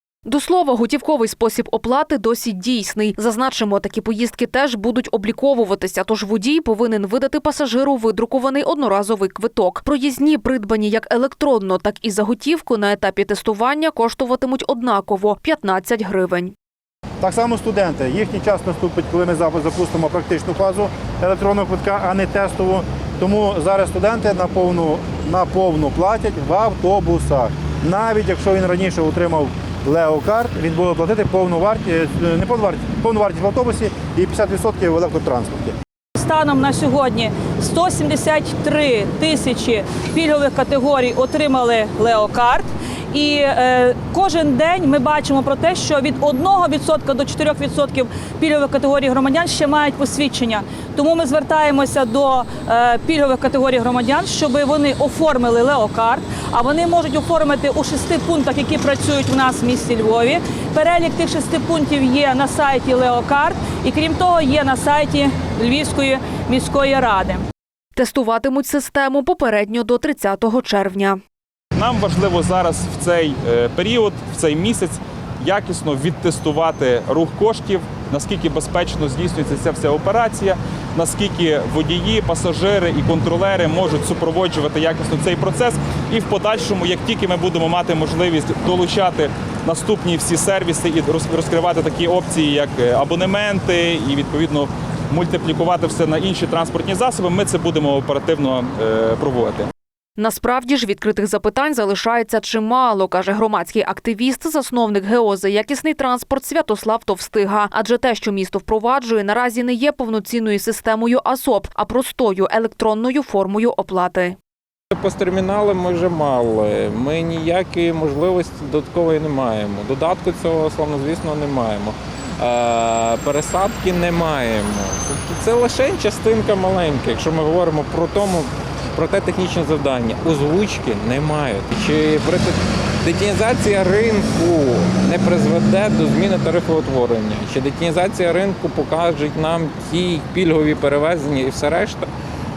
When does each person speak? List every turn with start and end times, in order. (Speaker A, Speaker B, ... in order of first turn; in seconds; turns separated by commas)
Speaker A: 0.2-16.5, Speaker B: 17.2-35.7, Speaker C: 36.2-67.4, Speaker A: 68.0-71.2, Speaker D: 71.8-99.7, Speaker A: 100.2-114.3, Speaker E: 114.9-142.1